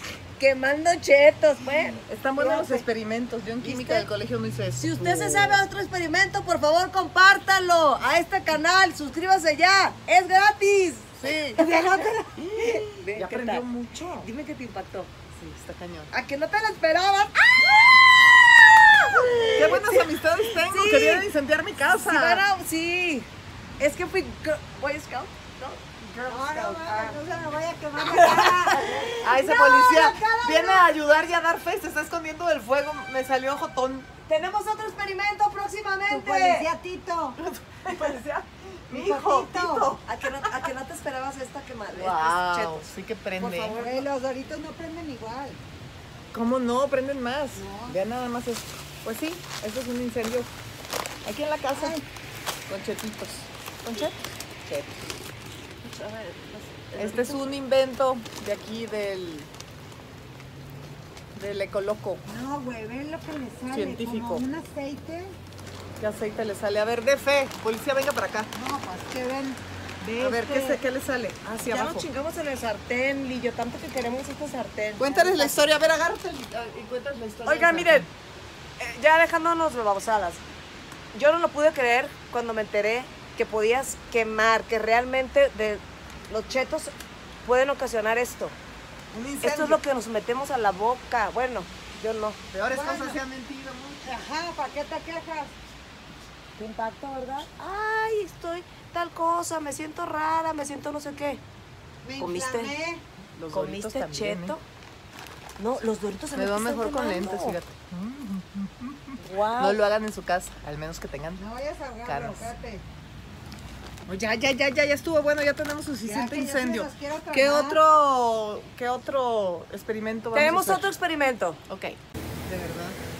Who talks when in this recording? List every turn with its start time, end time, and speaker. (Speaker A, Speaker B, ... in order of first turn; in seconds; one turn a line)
Speaker A: 0.4-2.0
Speaker B: 2.1-5.6
Speaker C: 2.4-2.8
Speaker A: 3.6-4.1
Speaker A: 4.7-15.1
Speaker B: 11.2-11.6
Speaker C: 11.6-12.3
Speaker B: 13.1-14.3
Speaker B: 15.3-16.1
Speaker A: 16.1-21.3
Speaker B: 19.5-22.4
Speaker A: 22.0-25.8
Speaker B: 26.0-26.8
Speaker C: 26.2-30.9
Speaker A: 26.6-27.2
Speaker A: 28.0-29.2
Speaker B: 29.2-34.1
Speaker A: 34.3-36.7
Speaker C: 36.1-37.4
Speaker B: 37.4-40.7
Speaker A: 37.9-38.2
Speaker C: 38.9-39.9
Speaker A: 40.0-44.1
Speaker B: 41.9-43.8
Speaker C: 43.8-45.6
Speaker B: 46.3-50.5
Speaker B: 51.2-52.0
Speaker C: 51.7-52.0
Speaker B: 52.7-55.1
Speaker A: 55.8-57.5
Speaker B: 57.0-59.5
Speaker B: 61.3-62.2
Speaker C: 62.2-65.3
Speaker B: 63.7-64.4
Speaker B: 66.0-68.5
Speaker C: 68.5-70.8
Speaker B: 70.2-72.1
Speaker A: 71.6-75.6
Speaker B: 75.0-78.1
Speaker A: 77.5-78.1
Speaker A: 78.8-80.4
Speaker A: 81.1-88.5
Speaker B: 89.1-89.8
Speaker A: 89.4-92.4
Speaker B: 92.5-94.2
Speaker C: 92.7-93.2
Speaker C: 94.0-95.5
Speaker A: 96.6-101.4
Speaker C: 102.0-103.0
Speaker A: 102.2-102.7
Speaker B: 103.3-104.5
Speaker A: 103.5-104.6
Speaker A: 105.6-107.6
Speaker B: 106.3-111.4
Speaker A: 109.2-109.8
Speaker C: 111.4-112.8
Speaker B: 112.0-112.5
Speaker B: 114.0-120.9
Speaker C: 116.0-117.8
Speaker A: 120.3-121.6
Speaker B: 121.7-123.0